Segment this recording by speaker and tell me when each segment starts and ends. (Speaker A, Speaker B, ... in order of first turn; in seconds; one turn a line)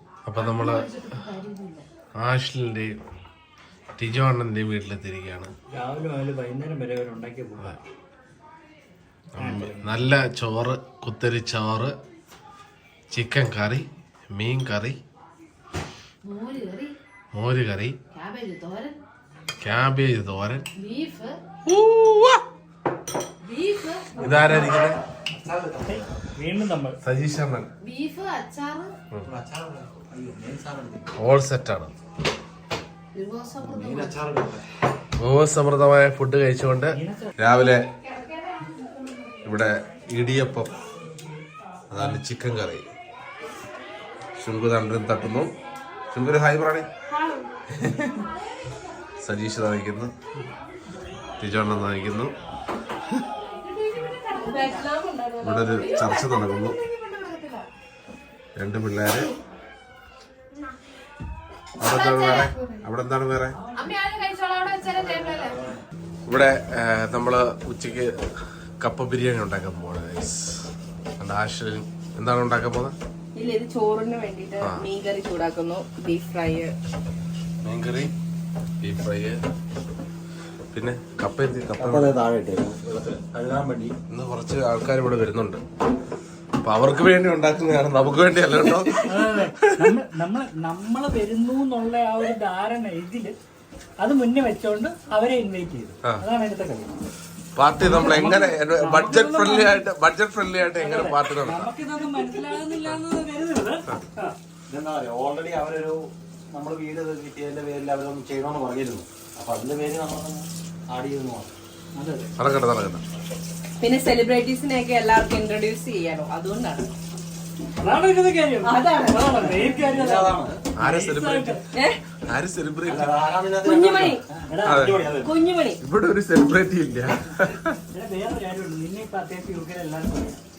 Speaker A: 0.3-0.9
Speaker B: 0.4-1.8
Speaker A: 2.2-2.9
Speaker A: 4.0-5.5
Speaker C: 5.7-7.8
Speaker C: 9.4-10.0
Speaker A: 9.4-11.9
Speaker A: 13.1-15.0
Speaker B: 16.2-16.9
Speaker A: 17.3-18.0
Speaker B: 18.1-19.0
Speaker A: 19.6-20.7
Speaker B: 20.8-21.4
Speaker A: 21.7-22.4
Speaker B: 23.4-24.7
Speaker A: 24.2-25.0
Speaker D: 24.3-26.2
Speaker C: 25.8-27.0
Speaker A: 27.0-27.7
Speaker B: 27.8-28.9
Speaker D: 29.2-31.1
Speaker A: 31.2-31.9
Speaker B: 33.1-34.3
Speaker D: 33.6-34.6
Speaker A: 35.2-37.8
Speaker C: 36.9-37.3
Speaker A: 39.5-40.7
Speaker A: 41.9-42.9
Speaker A: 44.4-45.5
Speaker A: 46.1-46.9
Speaker A: 49.2-50.1
Speaker A: 51.4-52.3
Speaker B: 53.5-55.0
Speaker A: 55.4-56.8
Speaker B: 55.8-57.6
Speaker A: 58.6-59.4
Speaker A: 61.8-63.6
Speaker B: 61.8-62.9
Speaker B: 63.7-65.6
Speaker A: 66.3-68.1
Speaker A: 68.8-70.6
Speaker A: 71.2-72.9
Speaker E: 73.4-76.7
Speaker A: 77.6-78.1
Speaker A: 78.8-79.4
Speaker A: 80.7-82.2
Speaker D: 81.8-83.9
Speaker A: 84.1-85.6
Speaker A: 86.6-89.8
Speaker C: 89.1-93.3
Speaker C: 94.0-97.0
Speaker A: 97.6-101.7
Speaker C: 97.8-99.9
Speaker C: 100.8-104.3
Speaker D: 104.7-106.0
Speaker D: 106.5-111.5
Speaker C: 112.0-112.3
Speaker A: 112.4-113.0
Speaker E: 113.8-116.9
Speaker C: 117.8-121.6
Speaker E: 118.7-119.2
Speaker D: 119.4-120.6
Speaker A: 120.8-121.6
Speaker A: 122.3-123.2
Speaker D: 122.8-125.4
Speaker E: 123.6-124.2
Speaker C: 124.5-125.2
Speaker A: 124.7-125.1
Speaker E: 125.3-125.7
Speaker A: 125.8-127.8
Speaker C: 127.9-130.4